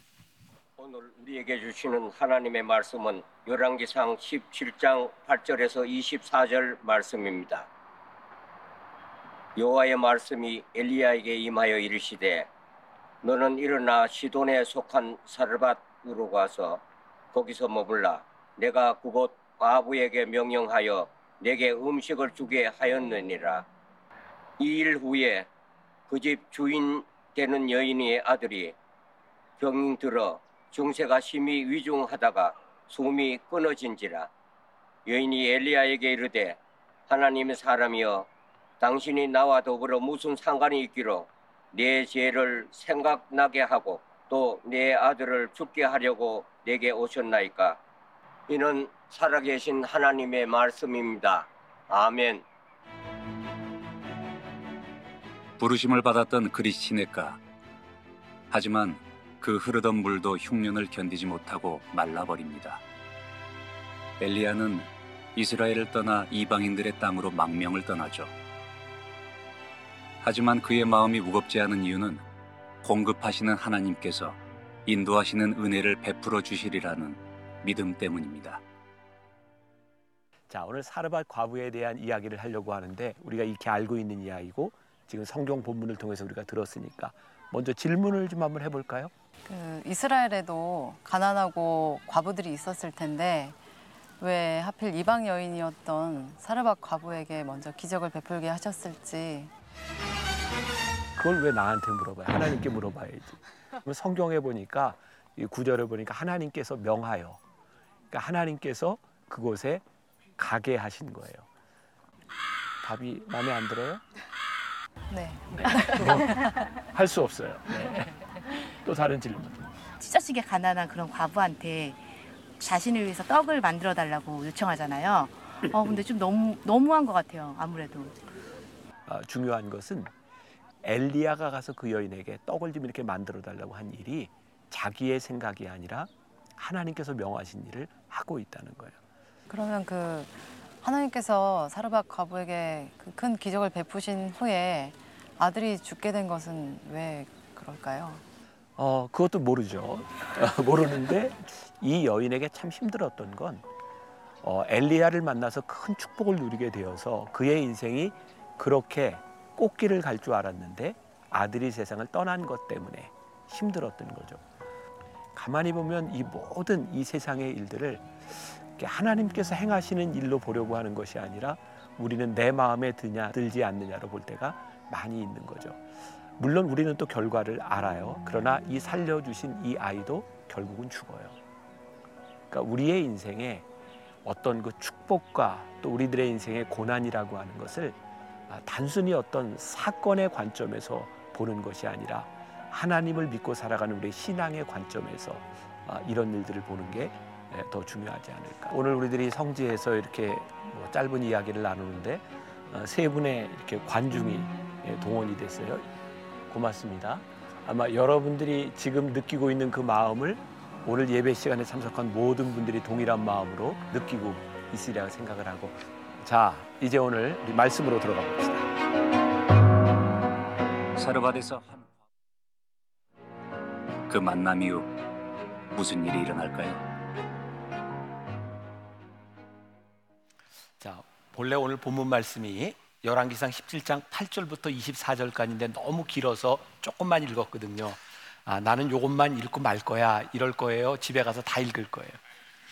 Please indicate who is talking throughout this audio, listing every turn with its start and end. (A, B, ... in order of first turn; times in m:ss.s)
0:00.8-0:07.7 A
0:09.6-0:12.5 A
0:13.2-0:16.8 A
0:17.3-0:23.6 A
0:24.6-0:25.5 A
0:26.1-0:28.7 A
0:29.6-0:34.3 A
0:35.0-0:38.3 A
0:38.8-0:47.8 A
0:48.5-0:52.4 A
0:55.6-0:57.4 B
0:58.5-1:02.8 B
1:04.2-1:08.3 B
1:10.2-1:12.2 B
1:12.8-1:18.6 B
1:20.5-1:29.1 C
1:29.4-1:33.6 D
1:34.2-1:39.5 D
1:41.2-1:47.4 C
1:48.1-1:49.8 C
1:50.4-1:51.4 C
1:52.8-1:54.0 C
1:55.1-1:56.4 D
1:56.0-1:56.3 C
1:56.9-1:58.2 C
1:58.8-1:59.7 C
2:00.0-2:02.0 E
2:02.6-2:08.1 E
2:09.1-2:10.1 C
2:10.8-2:19.0 C
2:19.5-2:28.2 D
2:28.8-2:33.6 C
2:34.4-2:44.4 C
2:45.3-2:48.1 C
2:48.7-2:55.8 C
2:56.4-3:01.3 C
3:02.5-3:03.6 C
3:04.2-3:08.0 C
3:08.5-3:25.9 C
3:26.5-3:38.7 C
3:41.0-3:41.9 B
3:44.1-3:44.9 B
3:45.7-3:46.8 B
3:50.8-4:02.2 C